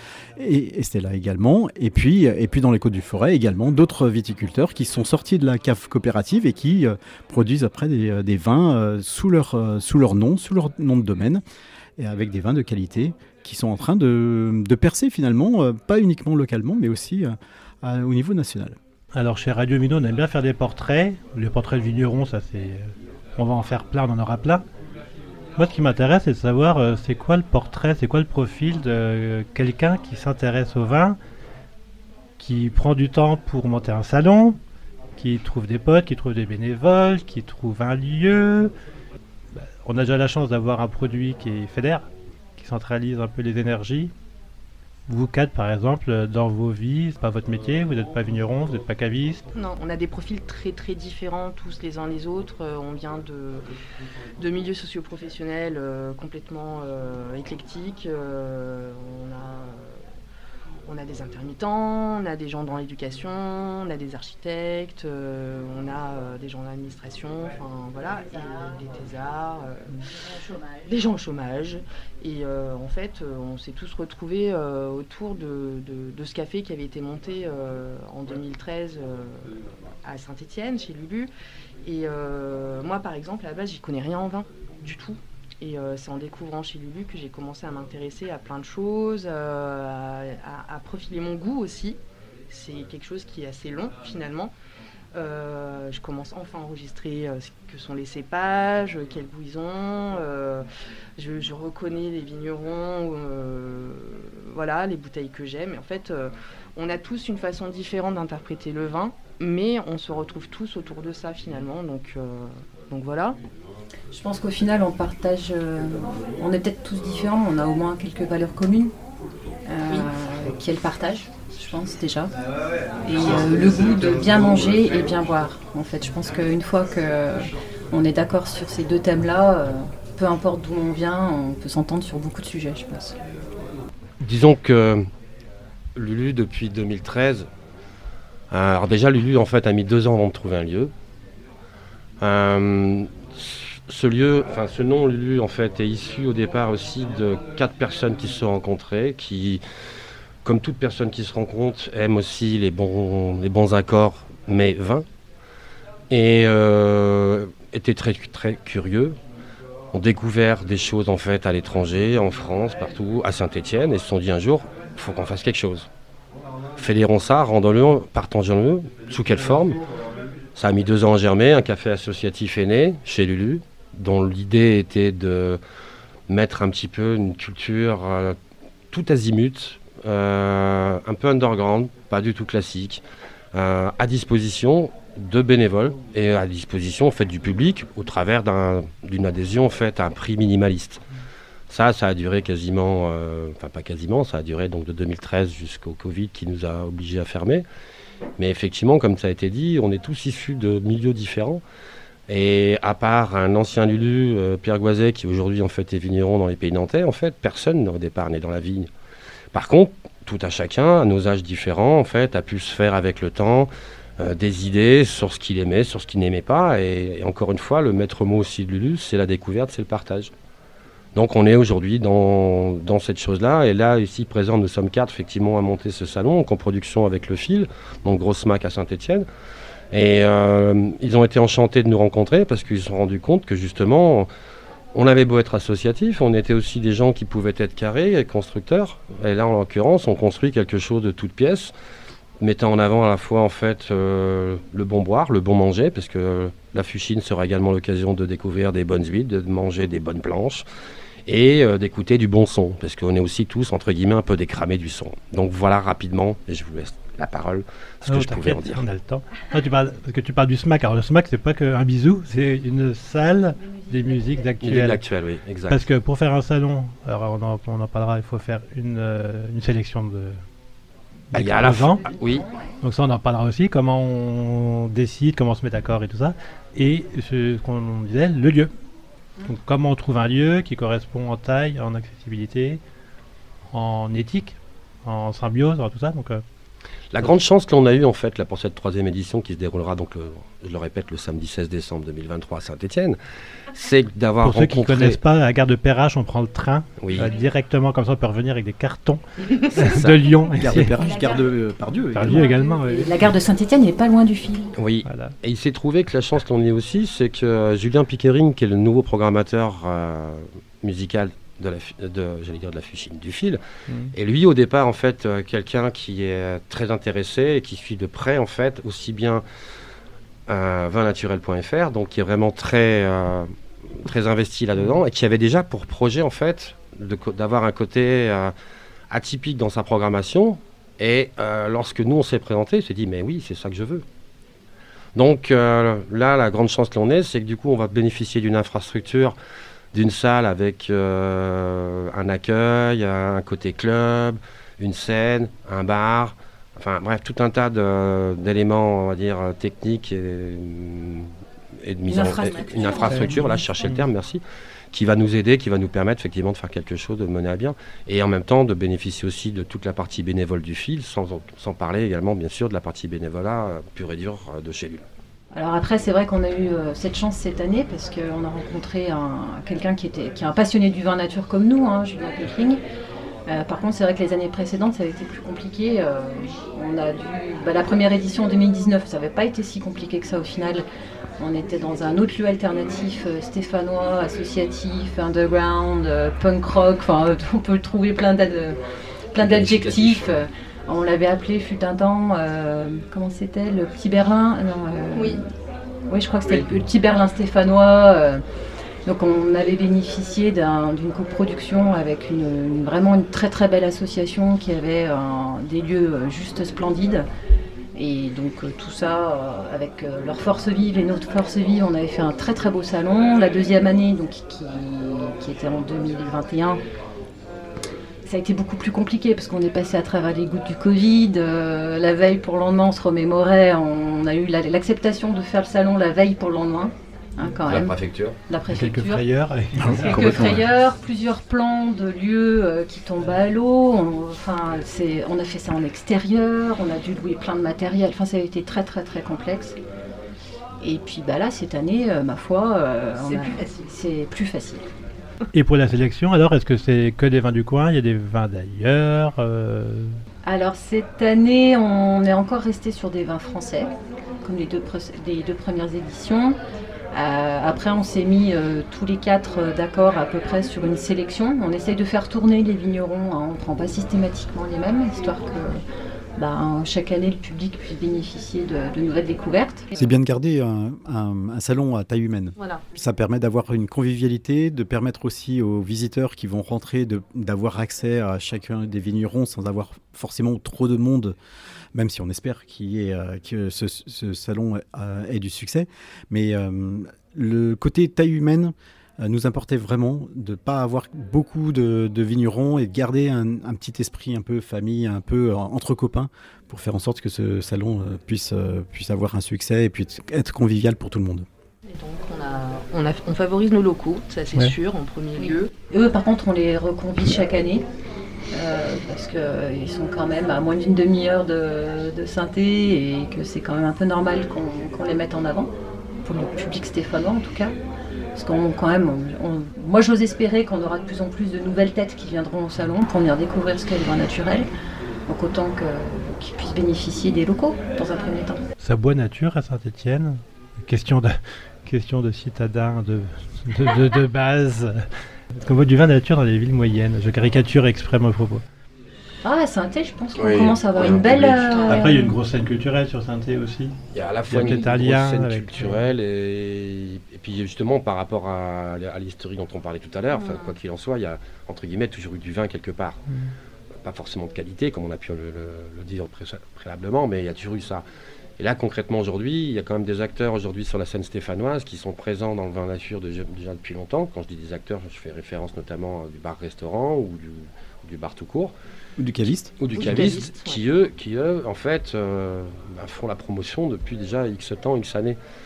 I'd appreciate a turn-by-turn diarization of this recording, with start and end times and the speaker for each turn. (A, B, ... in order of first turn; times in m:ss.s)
0:00.4-0:11.4 A
0:12.0-0:18.8 A
0:19.1-0:24.6 B
0:25.6-0:31.2 B
0:32.4-0:34.6 B
0:35.2-0:38.7 B
0:39.5-0:44.1 B
0:45.1-0:49.4 B
0:49.5-0:53.6 C
0:54.4-1:00.0 C
1:00.9-1:09.9 C
1:10.8-1:19.5 C
1:20.0-1:21.3 C
1:21.8-1:32.0 C
1:32.5-1:34.5 C
1:35.1-1:40.6 C
1:41.2-1:53.4 C
1:54.1-1:58.9 D
1:59.6-2:02.3 D
2:03.0-2:13.1 D
2:14.2-2:15.0 E
2:16.0-2:17.5 E
2:18.5-2:20.9 E
2:22.2-2:29.6 E
2:30.4-2:35.0 E
2:36.1-2:39.2 E
2:39.9-2:45.9 E
2:46.8-2:49.8 E
2:50.6-2:55.6 E
2:56.3-2:58.3 E
2:58.9-3:03.0 E
3:03.5-3:11.0 E
3:11.7-3:17.6 E
3:18.4-3:21.6 E
3:22.3-3:28.9 E
3:29.5-3:40.3 E
3:41.1-3:49.2 E
3:49.9-3:54.3 E
3:54.9-4:01.7 E
4:02.4-4:10.6 E
4:11.3-4:18.8 E
4:18.0-4:25.0 B
4:24.6-4:25.8 E
4:25.7-4:30.4 B
4:31.3-4:32.1 B
4:31.3-4:32.4 E
4:32.8-4:38.7 B
4:39.4-4:42.8 B
4:43.7-4:46.4 B
4:47.1-4:53.2 E
4:53.7-4:55.2 E
4:54.4-5:00.9 B
4:57.0-4:57.3 E
4:59.8-5:00.2 E
5:00.6-5:02.4 A
5:02.1-5:03.2 B
5:02.3-5:04.7 D
5:04.8-5:13.6 E
5:05.0-5:05.3 B
5:14.1-5:19.4 E
5:20.5-5:28.5 E
5:29.1-5:34.0 E
5:35.2-5:39.3 E
5:39.9-5:51.3 E
5:51.8-6:05.0 E
5:52.1-5:53.6 D
5:53.0-5:54.0 B
6:05.5-6:12.8 D
6:13.5-6:20.8 D
6:21.4-6:28.8 D
6:29.3-6:35.4 D
6:29.4-6:30.4 E
6:35.1-6:35.4 C
6:36.1-6:38.4 D
6:36.4-6:36.7 E
6:39.0-6:47.2 D
6:47.9-6:56.8 D
6:58.2-7:07.9 D
7:07.7-7:08.4 E
7:08.5-7:09.2 D
7:08.7-7:10.6 B
7:09.8-7:10.6 A
7:09.9-7:19.8 D
7:20.8-7:24.8 D
7:23.1-7:23.9 C
7:25.5-7:30.2 B
7:30.4-7:36.6 D
7:37.1-7:45.8 D
7:46.4-7:49.9 D
7:50.0-8:01.3 A
7:52.6-7:52.8 C
8:01.9-8:21.4 A
8:21.8-8:25.7 C
8:25.4-8:27.8 D
8:28.5-8:35.7 D
8:36.2-8:37.7 D
8:38.3-8:44.7 D
8:45.3-8:48.6 D
8:48.8-8:58.6 B
8:59.4-9:02.2 D
9:00.4-9:01.7 E
9:01.7-9:02.2 C
9:01.9-9:04.0 B
9:04.1-9:13.2 E
9:04.5-9:06.1 B
9:10.3-9:10.8 C
9:14.0-9:18.0 E
9:18.6-9:28.7 E
9:29.2-9:29.7 A
9:29.8-9:35.4 E
9:29.9-9:30.8 C